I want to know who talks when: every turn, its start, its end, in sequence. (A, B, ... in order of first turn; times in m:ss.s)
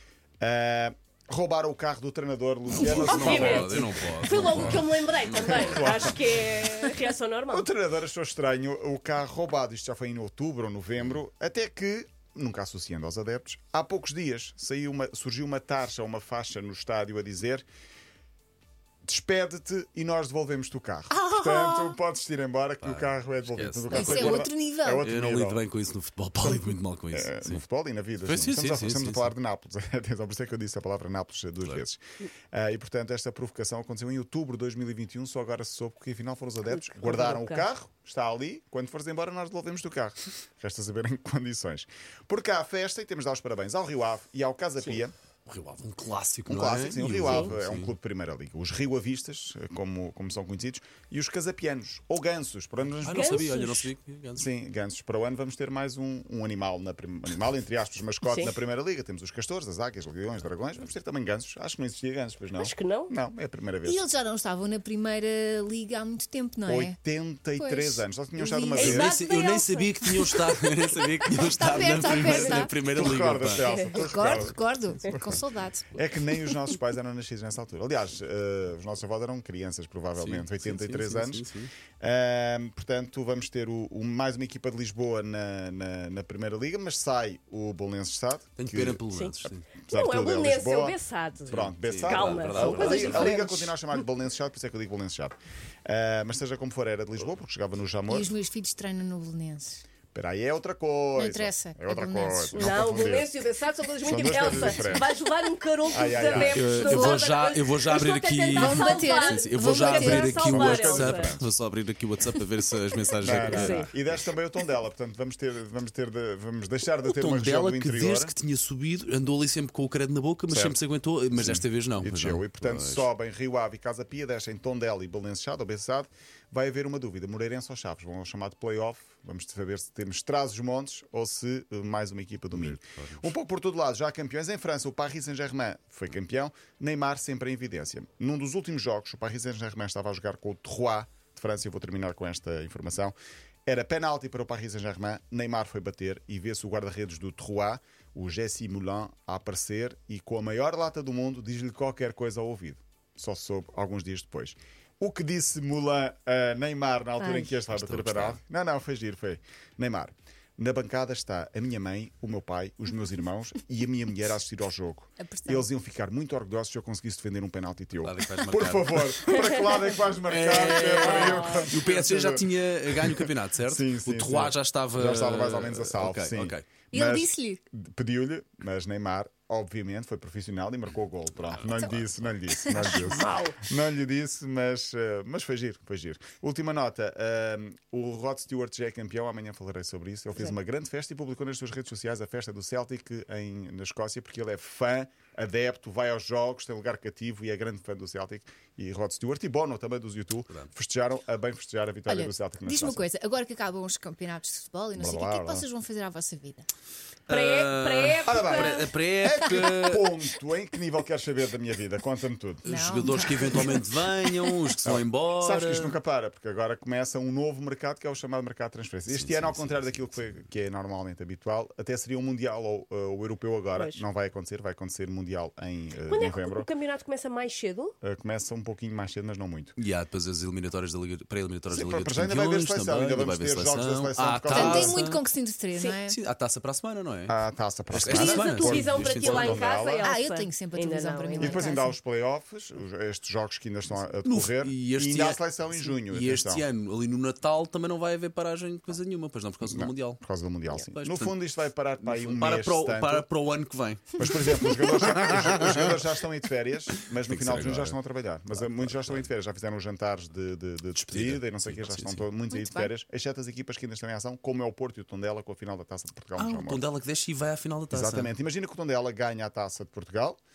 0:00.4-0:04.8 A
0:02.8-0:05.8 B
0:02.8-0:07.7 C
0:05.4-0:06.2 A
0:07.5-0:17.6 A
0:19.1-0:25.6 A
0:21.1-0:22.0 D
0:22.8-0:27.6 B
0:23.9-0:25.0 D
0:26.4-0:45.1 A
0:28.2-0:29.3 B
0:36.7-0:37.7 C
0:45.5-0:47.9 B
0:46.5-0:53.7 A
0:47.2-0:47.5 C
0:53.0-0:54.5 B
0:53.0-0:53.8 C
0:54.4-1:04.1 A
0:58.2-0:58.6 C
1:02.6-1:03.1 C
1:03.8-1:07.0 D
1:06.7-1:09.1 A
1:07.6-1:09.1 D
1:08.8-1:10.4 C
1:08.8-1:13.7 B
1:11.4-1:12.7 D
1:12.2-1:12.7 C
1:12.8-1:15.4 A
1:13.6-1:14.0 C
1:13.9-1:16.0 D
1:15.9-1:21.5 A
1:20.2-1:21.7 B
1:22.0-1:29.0 A
1:28.6-1:29.7 B
1:29.9-1:33.7 C
1:29.9-1:38.3 A
1:31.5-1:33.4 B
1:38.1-1:39.8 D
1:40.1-1:43.3 A
1:41.2-1:42.7 D
1:42.5-1:51.4 C
1:44.0-1:45.1 A
1:45.9-1:46.7 A
1:46.3-1:54.2 B
1:46.8-1:47.3 D
1:48.5-1:50.4 D
1:50.3-1:51.5 A
1:53.2-1:58.3 A
1:53.4-1:53.9 C
1:57.1-2:03.1 B
2:00.5-2:00.8 A
2:01.3-2:23.2 A
2:12.5-2:13.3 B
2:23.7-3:23.1 A
2:37.2-2:37.5 D
2:37.6-2:38.4 B
2:45.2-2:45.7 D
2:48.0-2:49.5 B
2:50.3-2:56.7 B
2:50.9-2:51.7 C
2:56.9-2:57.6 D
3:01.4-3:02.3 B
3:02.5-3:03.1 D
3:03.0-3:03.6 C
3:22.1-3:26.7 D
3:25.0-3:25.7 A
3:27.3-3:28.9 C
3:27.3-3:30.1 B
3:28.3-3:32.7 A
3:32.6-3:36.0 B
3:32.7-3:33.8 D
3:34.8-3:46.7 A
3:39.1-3:40.4 B
3:43.7-3:44.0 C
3:46.1-3:47.9 C
3:48.0-3:49.8 A
3:49.8-3:55.2 B
3:51.7-3:55.0 A
3:54.5-3:56.2 D
3:56.1-3:57.4 B
3:57.3-4:00.1 A
3:57.9-3:59.7 B
3:58.0-4:01.7 C
4:00.0-4:02.0 D
4:01.4-4:06.7 A
4:04.2-4:11.4 B
4:09.6-4:13.3 A
4:12.0-4:15.9 B
4:14.2-4:26.8 A
4:17.3-4:18.0 B
4:18.5-4:19.3 B
4:21.0-4:22.3 B
4:22.5-4:22.9 D
4:26.4-4:28.3 B
4:27.9-4:30.4 A